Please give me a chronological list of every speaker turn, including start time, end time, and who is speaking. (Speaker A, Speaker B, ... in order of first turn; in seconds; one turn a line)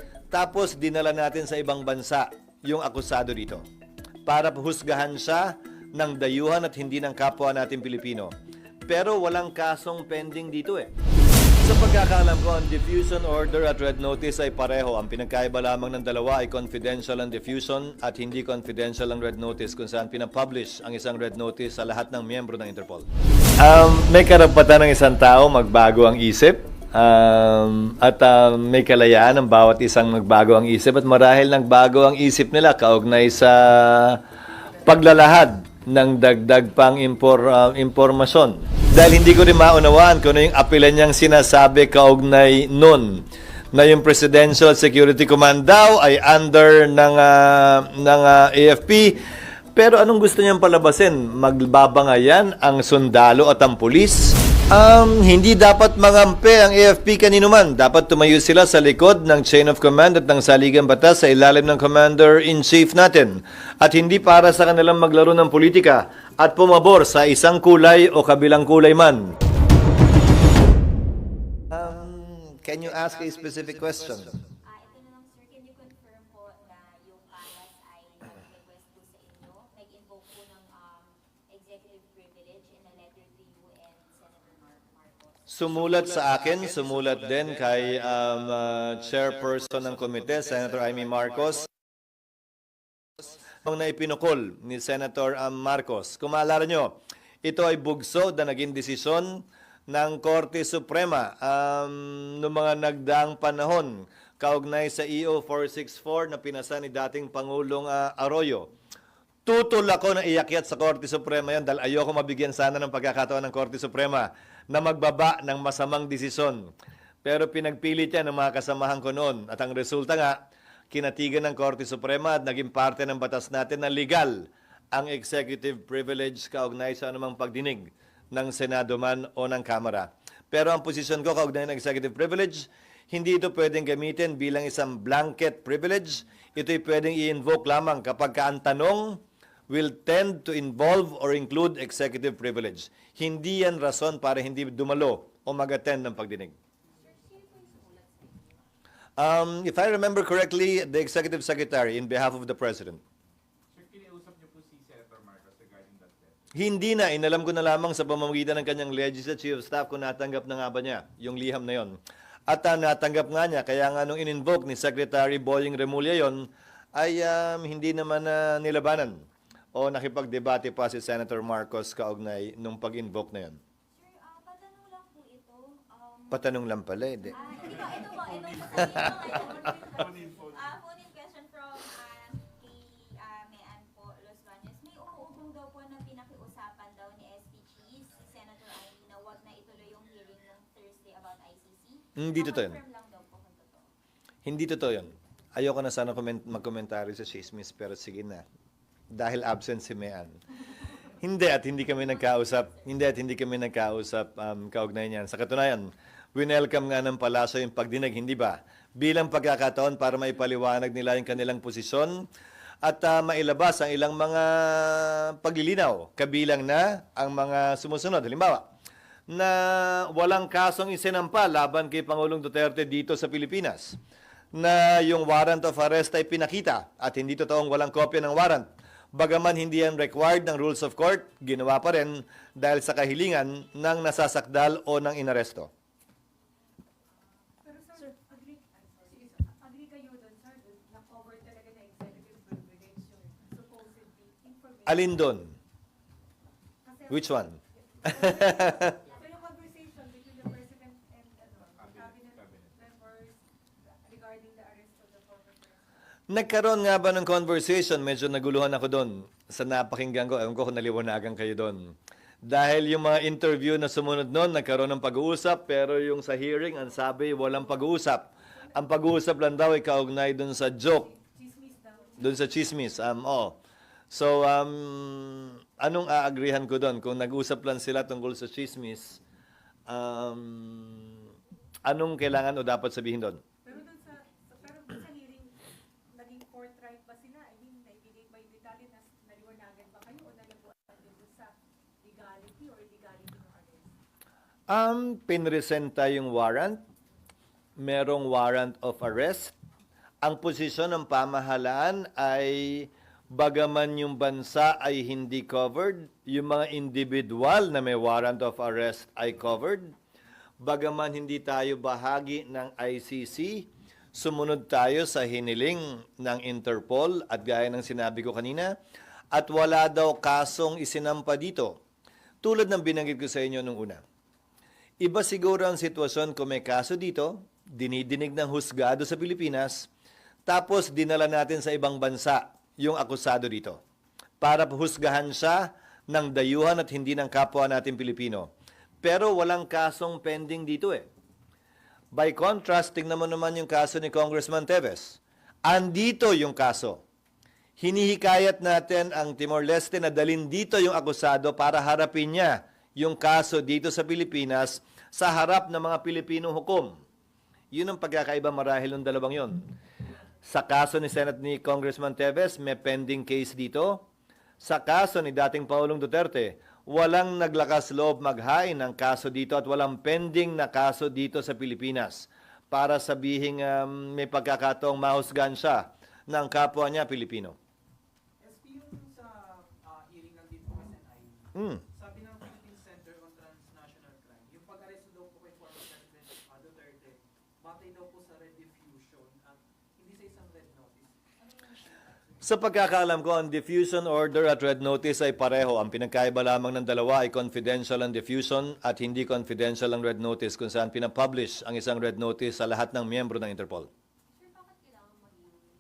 Speaker A: 0.3-3.6
Speaker A: 4.3-8.3
Speaker A: 8.9-10.9
Speaker A: 11.6-23.1
Speaker A: 23.6-34.2
Speaker A: 34.8-49.2
Speaker A: 49.8-69.3
Speaker A: 71.7-74.3
Speaker B: 74.6-85.5
Speaker A: 85.5-91.7
Speaker A: 93.6-108.7
Speaker A: 109.5-116.7
Speaker A: 117.2-120.4
Speaker A: 120.9-146.5
Speaker B: 146.9-147.7
Speaker A: 149.2-153.0
Speaker C: 153.7-156.4
Speaker A: 156.6-169.2
Speaker A: 169.8-173.6
Speaker B: 173.9-176.6
Speaker A: 176.3-177.4
Speaker B: 177.3-193.9
Speaker A: 192.2-192.8
Speaker A: 194.4-198.4
Speaker A: 199.1-200.3
Speaker A: 201.2-212.2
Speaker B: 201.5-203.1
Speaker A: 212.8-218.7
Speaker A: 219.3-224.0
Speaker A: 224.5-235.7
Speaker D: 237.6-245.3
Speaker E: 239.1-239.4
Speaker A: 244.9-245.5
Speaker D: 246.8-253.4
Speaker A: 247.1-249.0
Speaker C: 251.5-252.9
Speaker D: 254.1-255.8
Speaker A: 256.3-261.9
Speaker A: 262.4-271.1
Speaker D: 271.1-272.5
Speaker A: 272.2-273.6
Speaker A: 274.1-279.2
Speaker A: 279.9-281.2
Speaker A: 281.9-283.4
Speaker D: 283.6-285.6
Speaker D: 286.1-293.9
Speaker A: 294.7-296.8
Speaker A: 297.8-299.5
Speaker A: 300.2-309.9
Speaker A: 310.6-318.7
Speaker A: 319.3-321.8
Speaker A: 322.4-324.0
Speaker A: 325.0-329.9
Speaker A: 330.5-333.8
Speaker A: 334.4-338.5
Speaker A: 339.0-341.1
Speaker A: 342.1-347.0
Speaker A: 347.8-356.9
Speaker A: 357.7-359.6
Speaker A: 360.5-364.0
Speaker A: 364.6-377.6
Speaker E: 378.4-391.1
Speaker A: 381.6-381.8
Speaker A: 392.4-403.9
Speaker B: 404.4-405.4